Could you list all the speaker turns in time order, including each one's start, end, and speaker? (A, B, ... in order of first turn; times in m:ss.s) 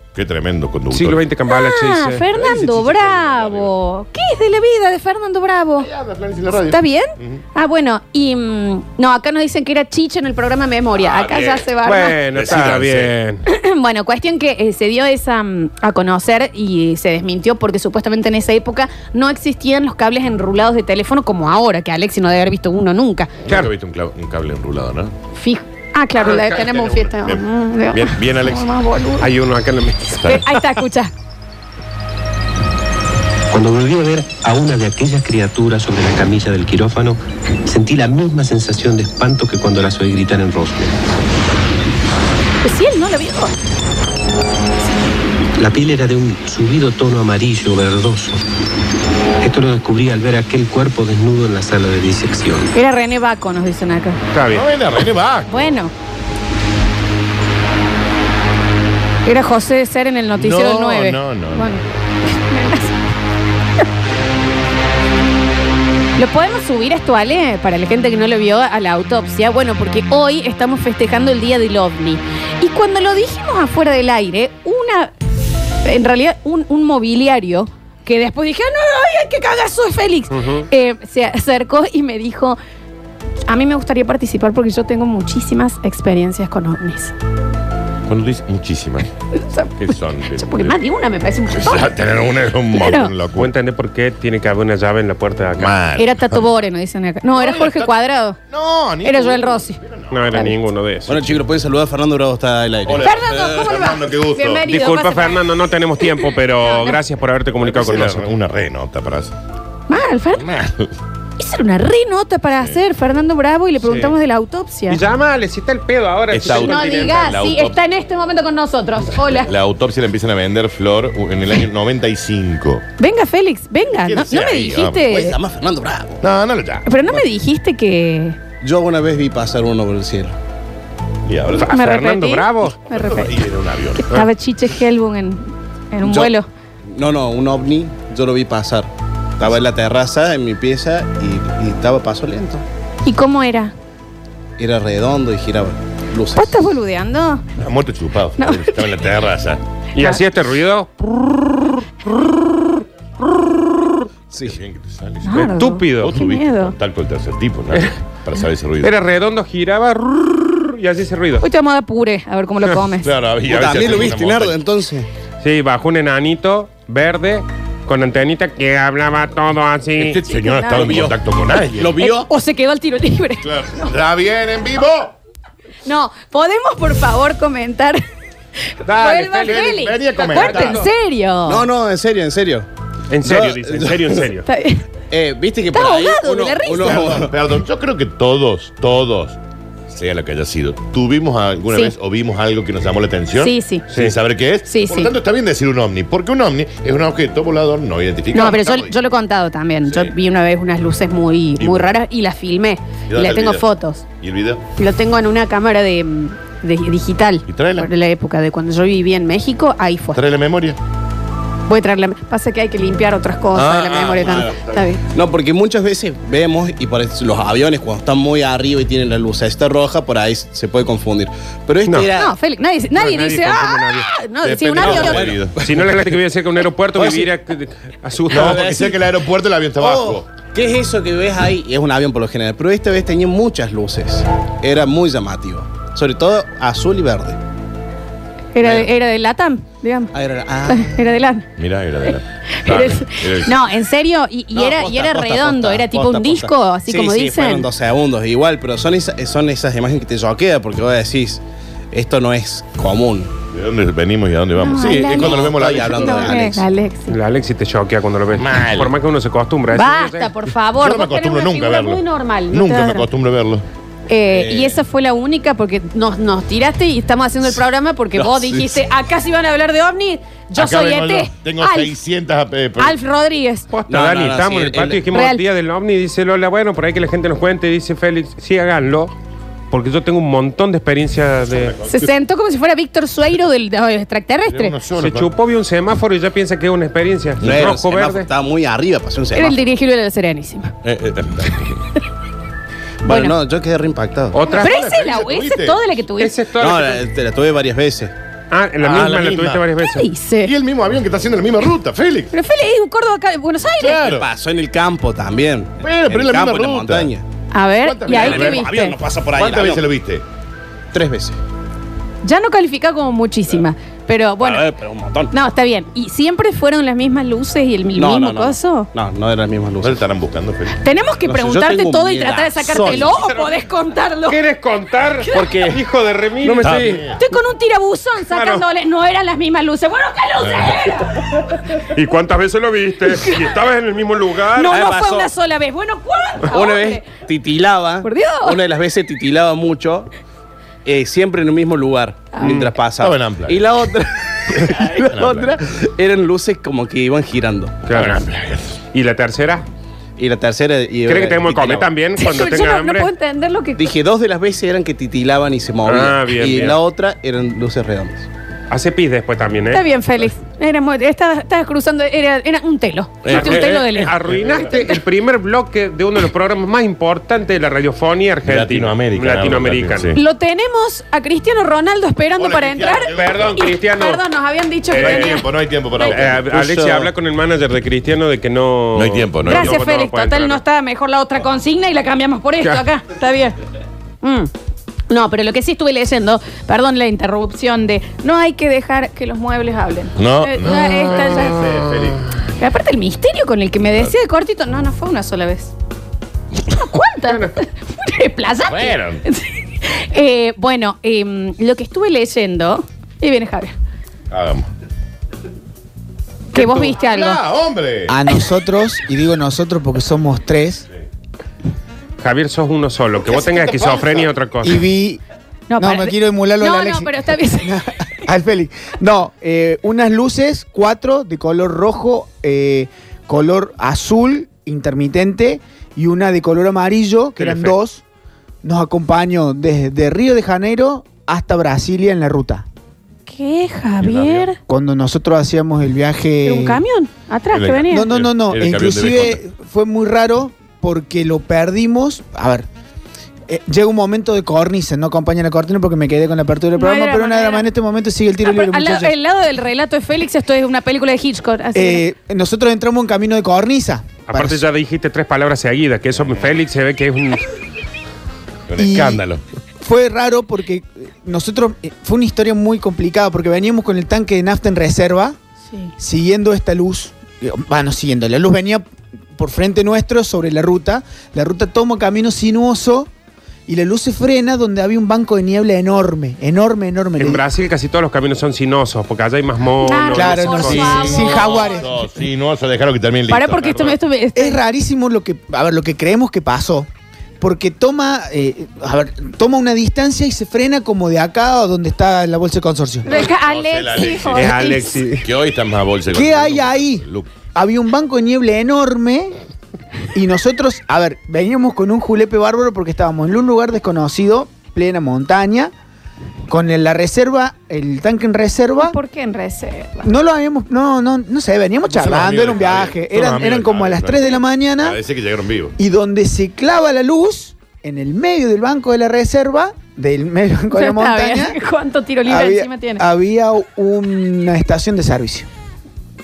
0:00.2-0:01.2 A
0:00.9-0:02.2 B
0:01.5-0:05.9 C
0:02.3-0:03.7 A
0:05.8-0:07.4 A
0:06.5-0:12.2 C
0:11.0-0:11.7 A
0:11.8-0:13.4 B
0:12.3-0:13.2 A
0:13.5-0:23.3 C
0:23.4-0:25.1 A
0:25.4-0:29.3 C
0:27.2-0:28.7 A
0:29.2-0:30.4 B
0:30.2-0:31.1 C
0:33.5-0:41.0 D
0:42.6-0:43.5 C
0:45.6-0:48.4 D
0:49.4-0:52.7 D
0:52.7-0:54.2 C
0:54.3-0:54.7 B
0:54.5-0:55.7 A
0:55.5-0:55.9 C
0:59.3-1:03.0 C
1:00.4-1:01.8 A
1:06.2-1:15.1 C
1:15.8-1:22.6 C
1:20.3-1:20.7 B
1:23.5-1:27.1 C
1:28.1-1:29.1 A
1:29.3-1:31.9 C
1:29.8-1:30.8 A
1:31.5-1:33.5 A
1:32.8-1:33.1 C
1:33.4-1:35.8 B
1:35.6-1:36.4 A
1:36.0-1:38.4 C
1:37.3-1:38.0 A
1:38.5-1:40.5 A
1:39.0-1:39.8 C
1:40.1-1:41.2 B
1:41.1-1:43.1 E
1:42.8-1:44.6 A
1:43.0-1:45.4 C
1:44.6-1:48.3 B
1:46.6-1:47.0 C
1:47.7-1:49.3 A
1:49.9-1:50.5 C
1:50.4-1:50.9 A
1:51.4-1:55.0 C
1:53.8-1:54.2 B
1:54.9-1:57.4 B
1:56.3-1:57.8 A
1:56.5-1:59.5 C
1:59.2-2:02.8 A
2:03.0-2:05.4 C
2:04.0-2:05.1 A
2:05.1-2:06.2 E
2:06.2-2:06.9 A
2:06.9-2:08.4 C
2:08.6-2:10.4 E
2:11.3-2:11.7 A
2:11.6-2:12.8 B
2:11.6-2:13.4 C
2:12.8-2:14.2 A
2:14.0-2:16.5 C
2:16.0-2:16.3 E
2:16.9-2:22.6 E
2:23.0-2:23.7 C
2:24.6-2:26.6 E
2:26.4-2:27.4 C
2:27.6-2:29.6 A
2:28.4-2:28.8 C
2:30.0-2:31.3 B
2:34.3-2:34.6 E
2:34.5-2:38.9 A
2:35.2-2:36.8 C
2:35.3-2:36.2 B
2:38.8-2:41.4 B
2:41.4-2:43.1 C
2:43.0-2:44.6 A
2:43.5-2:45.1 E
2:45.4-2:50.2 B
2:50.0-2:52.0 A
2:50.3-2:51.1 C
2:50.8-2:51.2 E
2:51.8-2:52.3 E
2:52.0-2:53.9 C
2:53.4-2:55.2 A
2:55.9-2:58.0 C
2:58.7-3:01.7 C
2:58.8-2:59.7 B
2:59.5-3:00.9 A
3:00.3-3:00.9 B
3:01.5-3:02.7 E
3:03.1-3:04.5 B
3:03.2-3:04.2 E
3:04.5-3:04.8 C
3:05.1-3:07.4 E
3:05.7-3:07.1 C
3:06.8-3:09.4 A
3:09.9-3:18.9 A
3:13.4-3:13.9 C
3:14.7-3:15.1 C
3:18.3-3:24.0 C
3:21.6-3:21.9 A
3:23.1-3:23.7 A
3:24.2-3:24.6 A
3:24.8-3:30.2 C
3:27.5-3:27.9 A
3:30.1-3:30.8 A
3:31.7-3:35.0 C
3:33.6-3:34.7 A
3:33.6-3:34.6 E
3:35.1-3:42.3 E
3:42.1-3:45.3 C
3:42.9-3:44.1 B
3:44.4-3:45.6 A
3:44.8-3:46.0 E
3:45.6-3:48.7 B
3:47.0-3:47.3 E
3:48.3-3:49.0 E
3:48.3-3:50.3 A
3:49.8-3:57.4 E
3:58.6-4:00.1 C
3:58.6-3:58.9 E
4:00.1-4:00.9 E
4:00.7-4:01.5 C
4:01.6-4:03.6 A
4:02.5-4:07.7 C
4:04.5-4:11.4 E
4:11.9-4:13.3 E
4:13.5-4:16.4 A
4:14.6-4:17.2 C
4:15.1-4:16.6 E
4:17.1-4:20.3 B
4:18.4-4:18.9 A
4:19.7-4:23.1 C
4:20.8-4:23.6 A
4:24.1-4:32.0 C
4:24.3-4:24.8 E
4:28.2-4:28.7 E
4:30.6-4:33.0 A
4:32.8-4:33.7 C
4:33.7-4:39.1 B
4:33.9-4:35.1 E
4:35.1-4:35.4 C
4:39.7-4:41.8 B
4:41.5-4:42.1 A
4:41.9-4:44.8 C
4:44.5-4:45.3 A
4:45.0-4:48.3 B
4:47.4-4:47.8 A
4:47.4-4:49.6 E
4:49.4-4:50.7 C
4:50.8-4:51.8 A
4:53.0-4:53.4 C
4:53.0-4:54.4 E
4:54.3-4:54.7 B
4:54.4-4:55.8 A
4:54.5-4:56.3 C
4:56.2-4:57.0 B
4:56.6-4:58.1 E
4:58.5-5:00.1 B
4:58.8-4:59.6 A
4:59.9-5:00.5 C
5:00.4-5:02.3 A
5:02.3-5:04.0 C
5:03.8-5:04.3 A
5:04.0-5:07.2 E
5:05.8-5:07.1 A
5:07.5-5:09.0 C
5:07.8-5:08.7 A
5:08.1-5:09.9 E
5:09.3-5:10.2 A
5:10.9-5:11.4 E
5:12.2-5:14.7 C
5:14.4-5:15.3 E
5:15.3-5:18.9 C
5:18.0-5:20.0 E
5:19.8-5:20.8 A
5:20.8-5:24.4 C
5:21.2-5:23.2 E
5:23.2-5:23.5 B
5:24.3-5:27.0 B
5:25.2-5:25.5 C
5:25.3-5:25.8 E
5:26.4-5:27.0 E
5:26.6-5:27.2 A
5:27.2-5:31.5 C
5:28.3-5:28.6 B
5:30.4-5:30.8 A
5:31.7-5:34.8 B
5:33.2-5:33.4 C
5:34.6-5:37.1 C
5:34.6-5:35.3 E
5:36.5-5:40.1 E
5:38.0-5:38.6 C
5:40.8-5:47.8 E
5:42.3-5:42.6 C
5:42.5-5:43.7 A
5:45.1-5:45.5 A
5:47.9-5:48.2 B
5:47.9-5:48.7 A
5:48.9-5:49.6 B
5:50.2-5:51.9 E
5:51.1-5:53.1 B
5:52.2-5:53.8 C
5:53.8-5:58.3 E
5:55.8-5:56.8 B
5:58.7-5:59.8 B
5:59.7-6:04.1 C
6:03.3-6:05.0 A
6:03.3-6:10.1 B
6:08.4-6:10.2 A
6:10.2-6:15.5 C
6:12.4-6:13.6 A
6:13.1-6:14.2 B
6:14.9-6:15.4 B
6:15.0-6:16.5 A
6:16.0-6:20.6 B
6:16.5-6:17.1 E
6:19.0-6:19.8 A
6:19.5-6:23.6 C
6:24.2-6:24.5 C
6:25.1-6:31.6 C
6:30.2-6:32.2 A
6:31.2-6:31.9 B
6:32.6-6:35.7 C
6:36.7-6:43.7 C
6:38.6-6:39.2 A
6:44.3-6:44.7 A
6:46.5-6:47.4 C
6:46.5-6:48.2 A
6:48.1-6:50.9 F
6:52.2-6:54.8 B
6:53.3-6:54.3 A
6:54.6-6:55.2 F
6:55.7-6:57.8 C
6:55.8-7:08.0 F
7:07.4-7:07.8 B
7:08.6-7:12.7 F
7:13.3-7:14.6 C
7:14.0-7:14.5 A
7:14.7-7:16.8 F
7:16.4-7:18.1 C
7:17.5-7:19.4 A
7:17.9-7:22.7 F
7:23.5-7:29.1 F
7:26.8-7:27.7 C
7:28.4-7:32.0 C
7:31.8-7:34.6 F
7:34.3-7:37.4 B
7:36.2-7:36.5 A
7:38.7-7:39.4 A
7:38.8-7:39.2 F
7:39.8-7:45.4 F
7:46.0-7:48.8 F
7:49.4-7:53.1 F
7:53.7-7:57.4 F
7:57.2-8:01.1 B
7:59.8-8:01.9 C
8:00.1-8:02.1 F
8:00.8-8:04.0 A
8:03.3-8:04.6 C
8:04.4-8:06.9 F
8:07.4-8:13.2 F
8:13.0-8:15.0 C
8:13.1-8:17.3 A
8:14.3-8:15.3 B
8:16.1-8:19.3 F
8:20.1-8:25.7 F
8:26.5-8:29.0 F
8:28.8-8:30.1 C
8:30.0-8:35.0 F
8:31.9-8:35.8 A
8:35.8-8:41.6 F
8:40.7-8:43.0 C
8:42.2-8:45.5 F